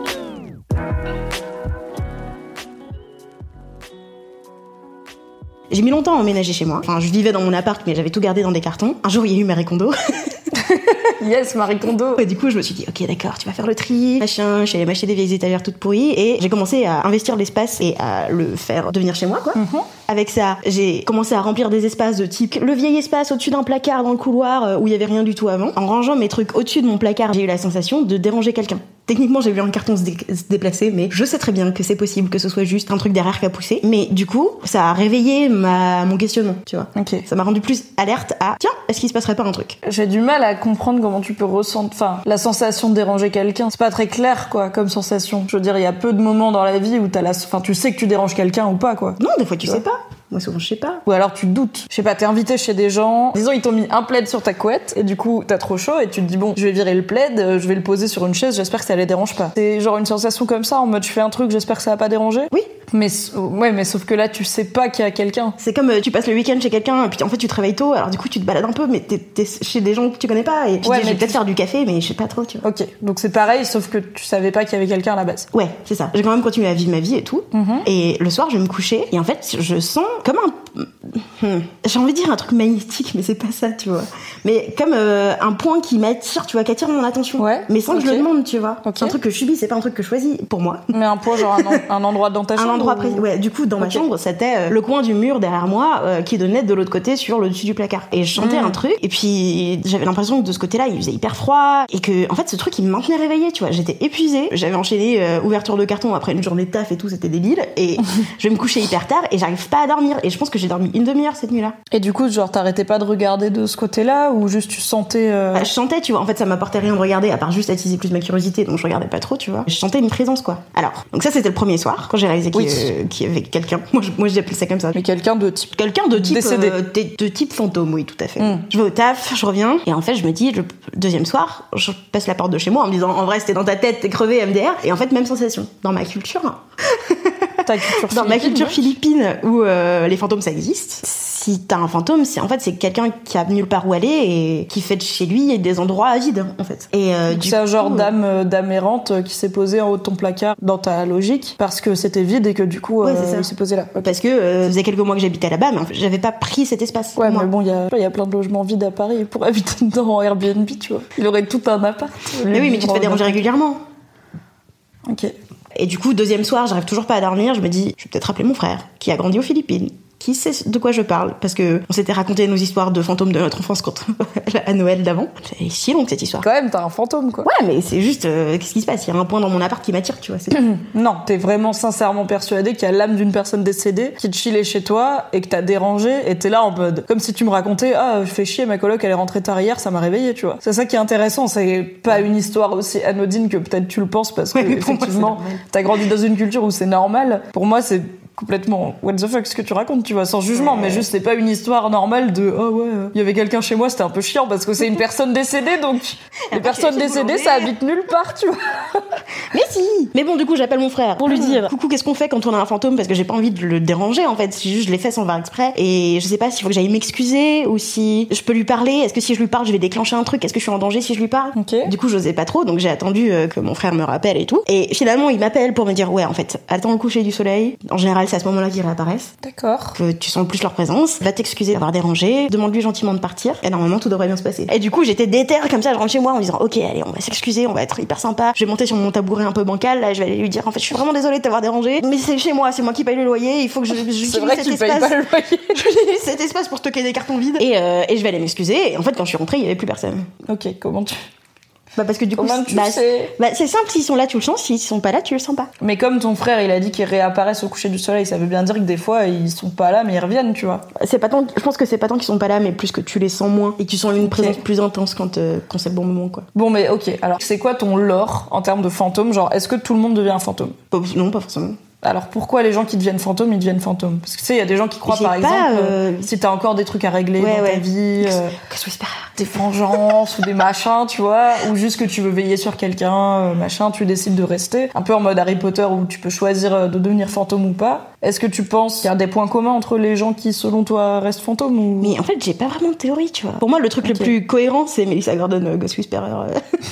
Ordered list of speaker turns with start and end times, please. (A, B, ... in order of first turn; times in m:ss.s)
0:05.7-0:10.3 A
0:10.5-0:12.2 B
0:12.2-0:39.8 A
0:19.5-0:19.9 B
0:36.9-0:37.2 B
0:39.8-0:49.8 B
0:49.2-0:51.0 A
0:51.0-1:05.6 B
1:05.6-1:12.6 A
1:10.8-1:11.4 B
1:12.6-1:15.5 B
1:15.5-1:31.8 A
1:17.5-1:17.8 B
1:27.4-1:28.3 B
1:28.8-1:29.2 B
1:30.9-1:33.3 B
1:32.6-1:51.8 A
1:33.8-1:34.0 B
1:38.4-1:38.8 B
1:51.9-1:55.7 B
1:55.5-2:05.0 A
2:02.5-2:02.9 B
2:04.9-2:06.8 B
2:05.7-2:17.4 A
2:08.4-2:08.6 B
2:17.6-2:18.8 B
2:18.0-2:28.1 A
2:27.3-2:34.1 B
2:33.0-2:33.5 A
2:34.0-2:37.5 A
2:37.2-2:43.5 B
2:42.5-2:43.8 A
2:45.0-2:45.3 B
2:45.7-2:56.4 A
2:56.4-2:57.5 B
2:57.4-3:00.6 A
3:00.5-3:29.0 B
3:14.5-3:15.6 A
3:20.5-3:21.1 A
3:26.5-3:27.7 A
3:29.5-3:49.3 A
3:31.3-3:31.7 B
3:41.5-3:41.9 B
3:49.4-3:50.0 B
3:50.0-4:05.2 A
4:04.2-4:05.8 B
4:05.7-4:10.2 A
4:10.4-4:11.2 B
4:11.9-4:15.7 A
4:12.3-4:13.3 B
4:15.8-4:20.8 B
4:21.0-4:26.4 A
4:24.2-4:24.6 B
4:26.5-4:30.7 B
4:30.9-4:31.8 A
4:32.0-4:38.5 B
4:35.0-4:36.3 A
4:37.4-4:39.3 A
4:39.4-4:52.2 B
4:52.0-4:56.6 A
4:54.0-4:54.3 B